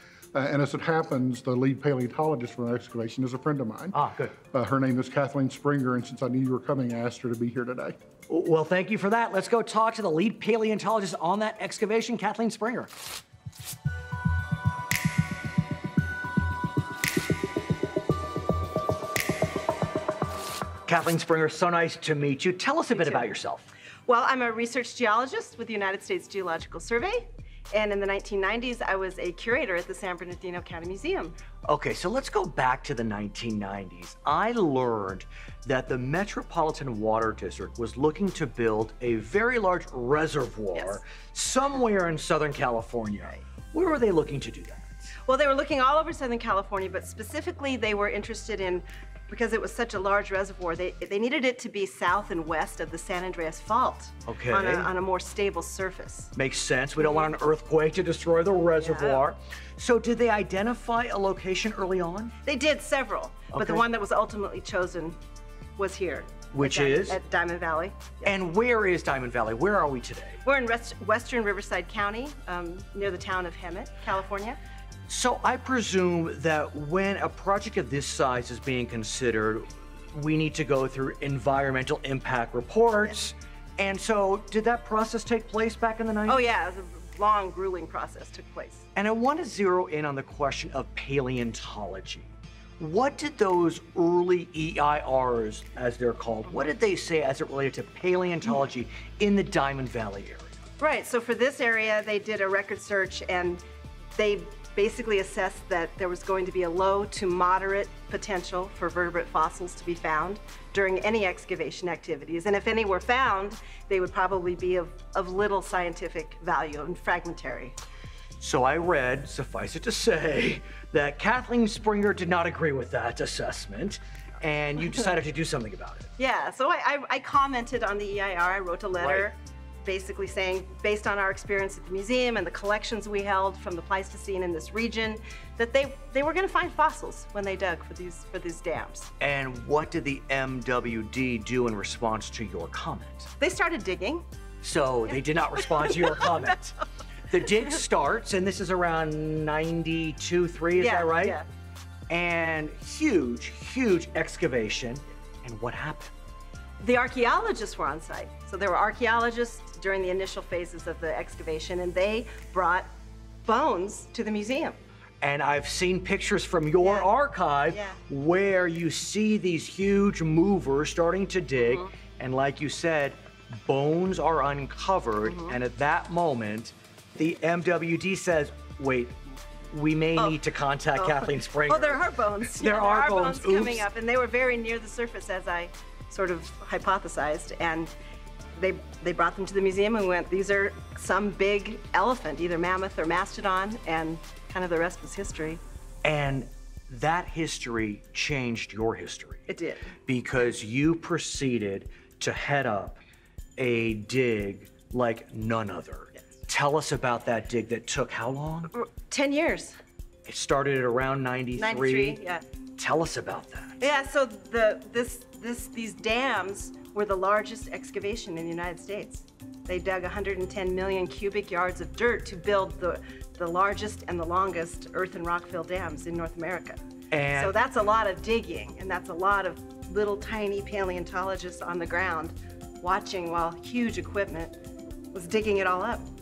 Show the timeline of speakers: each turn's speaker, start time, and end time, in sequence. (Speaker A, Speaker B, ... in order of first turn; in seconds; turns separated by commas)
Speaker A: 0.3-4.0, Speaker B: 3.9-4.4, Speaker A: 4.5-8.0, Speaker B: 8.3-12.9, Speaker B: 20.9-23.7, Speaker C: 22.9-23.3, Speaker C: 24.1-31.4, Speaker B: 31.7-45.1, Speaker C: 45.3-56.3, Speaker B: 54.3-54.9, Speaker B: 56.3-62.3, Speaker C: 57.0-57.3, Speaker C: 58.8-59.2, Speaker C: 62.5-65.2, Speaker B: 63.5-63.8, Speaker C: 65.8-68.3, Speaker B: 66.5-67.2, Speaker B: 68.2-70.4, Speaker C: 70.5-74.6, Speaker B: 75.1-86.4, Speaker C: 86.3-88.8, Speaker B: 89.0-100.5, Speaker C: 100.8-103.6, Speaker C: 104.2-117.7, Speaker B: 118.4-126.1, Speaker C: 126.2-139.1, Speaker B: 129.0-129.3, Speaker B: 139.2-143.3, Speaker C: 143.4-144.2, Speaker B: 144.6-151.4, Speaker C: 150.8-151.5, Speaker B: 152.1-156.1, Speaker C: 156.8-162.9, Speaker C: 163.4-164.8, Speaker B: 165.2-179.2, Speaker C: 166.8-167.1, Speaker C: 167.7-168.0, Speaker C: 171.6-171.9, Speaker C: 175.2-175.6, Speaker B: 179.7-183.9, Speaker C: 181.0-187.9, Speaker C: 188.6-195.6, Speaker B: 196.0-199.5, Speaker C: 199.5-199.9, Speaker B: 200.1-203.0, Speaker B: 203.6-208.7, Speaker C: 208.7-209.8, Speaker B: 210.3-212.2, Speaker C: 211.6-212.4, Speaker B: 212.8-213.8, Speaker C: 213.8-226.8, Speaker B: 227.1-227.5, Speaker C: 227.3-234.6, Speaker C: 235.1-236.1